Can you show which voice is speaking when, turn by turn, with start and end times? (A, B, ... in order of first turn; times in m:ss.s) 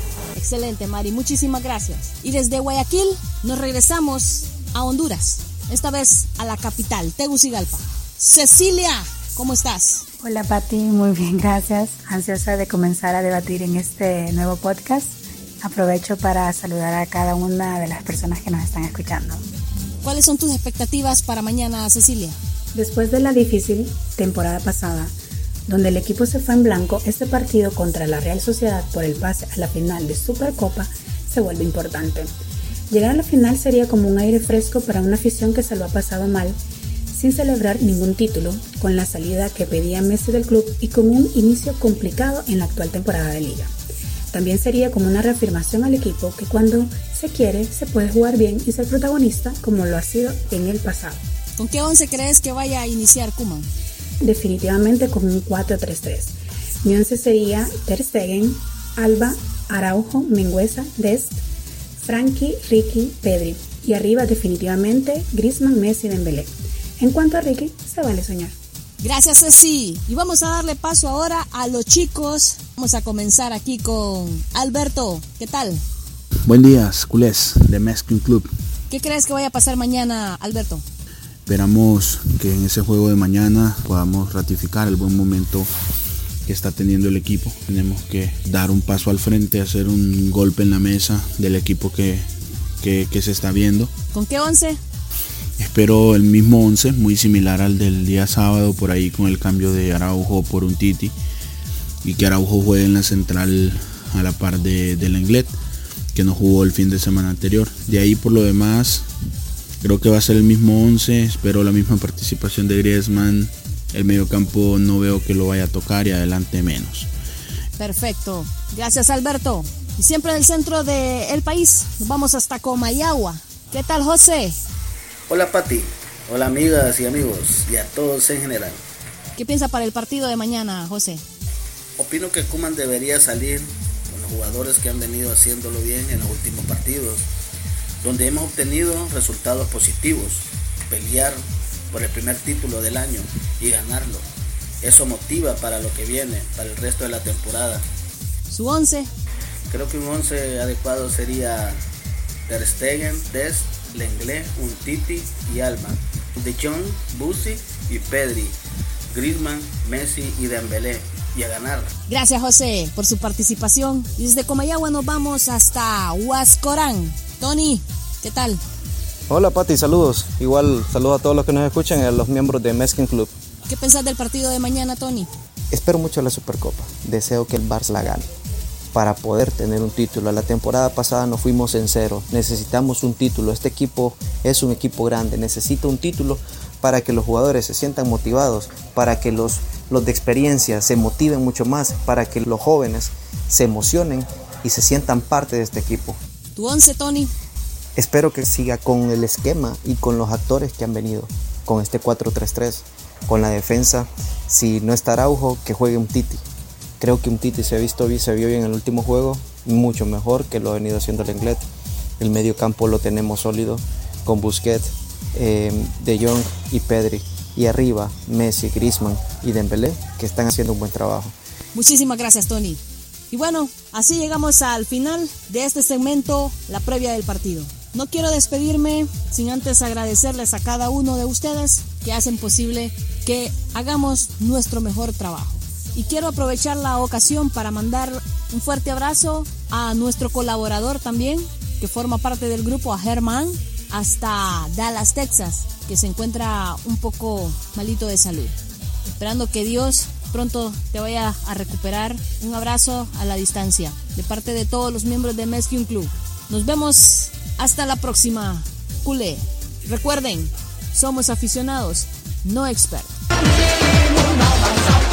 0:00.3-0:10.0 A
0:10.2-0:19.4 B
0:20.0-0:22.4 A
0:22.7-0:25.1 B
0:25.7-0:32.3 B
0:32.9-0:36.6 B
0:37.1-0:43.7 B
0:44.3-0:51.2 B
0:51.6-0:53.7 A
0:54.2-1:01.4 B
1:02.0-1:08.6 B
1:09.0-1:15.8 A
1:16.5-1:18.5 C
1:18.9-1:20.8 A
1:21.5-1:25.7 C
1:26.5-1:32.3 C
1:32.8-1:33.9 C
1:34.1-1:34.8 A
1:35.6-1:41.1 C
1:42.0-1:45.5 C
1:46.1-1:49.0 C
1:49.8-1:57.1 C
1:57.8-2:04.6 A
2:05.3-2:08.8 D
2:09.4-2:11.2 A
2:12.0-2:17.2 D
2:18.0-2:20.4 D
2:20.9-2:21.4 D
2:21.9-2:24.2 D
2:24.8-2:27.8 D
2:28.5-2:29.1 A
2:29.7-2:31.8 D
2:32.5-2:38.5 D
2:39.1-2:41.9 D
2:42.1-2:48.6 A
2:49.3-2:53.3 E
2:53.7-2:55.3 A
2:55.7-2:58.3 E
2:58.9-3:16.2 E
3:16.6-3:17.3 A
3:18.0-3:26.4 E
3:27.0-3:31.6 E
3:32.2-3:41.3 E
3:41.7-4:08.6 A
4:09.1-4:23.2 A